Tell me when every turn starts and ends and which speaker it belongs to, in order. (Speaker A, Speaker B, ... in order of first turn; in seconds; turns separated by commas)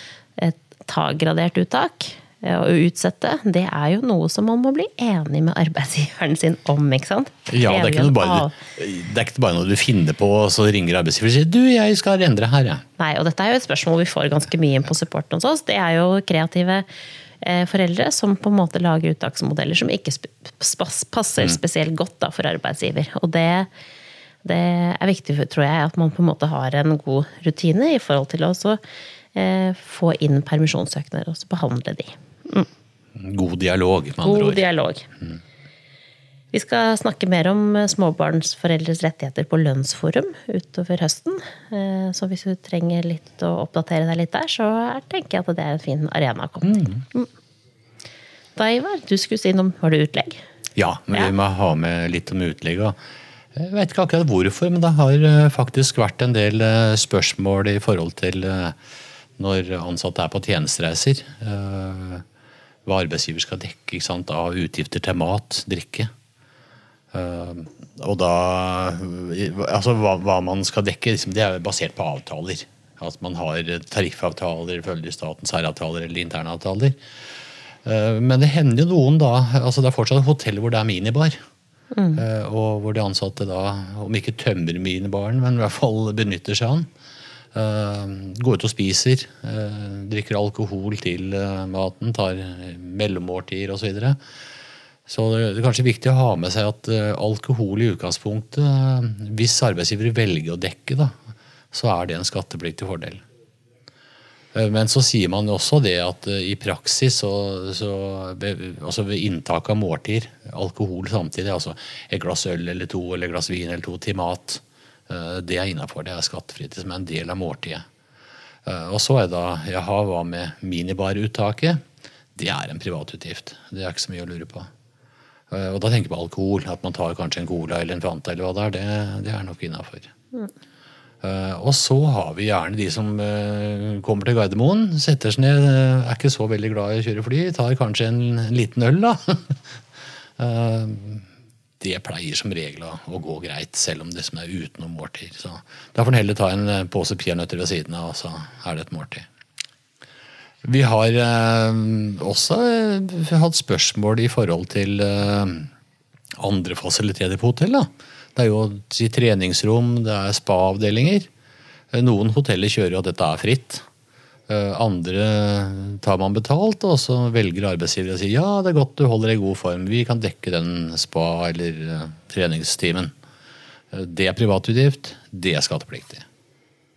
Speaker A: 0.4-8.6, Speaker B: 7.5-12.8, Speaker A: 13.0-16.9, Speaker A: 17.4-23.7, Speaker A: 24.4-28.8, Speaker A: 29.3-32.7, Speaker B: 33.1-34.6, Speaker A: 34.2-35.1, Speaker A: 36.5-47.3, Speaker B: 46.7-47.0, Speaker A: 48.5-50.4, Speaker B: 50.8-52.9, Speaker B: 53.5-58.8, Speaker B: 59.4-62.2, Speaker B: 62.9-66.1, Speaker B: 67.1-77.0, Speaker B: 77.8-81.4, Speaker A: 81.9-82.2, Speaker B: 82.2-86.9, Speaker B: 87.5-94.2, Speaker B: 95.1-101.1, Speaker B: 101.7-103.2, Speaker B: 104.5-117.8, Speaker B: 118.7-121.8, Speaker B: 122.3-124.7, Speaker B: 125.5-130.1, Speaker B: 131.2-139.6, Speaker B: 140.4-141.2, Speaker B: 141.8-149.2, Speaker B: 150.6-155.7, Speaker B: 156.4-161.3, Speaker B: 161.9-163.8, Speaker B: 164.5-173.1, Speaker B: 173.9-176.2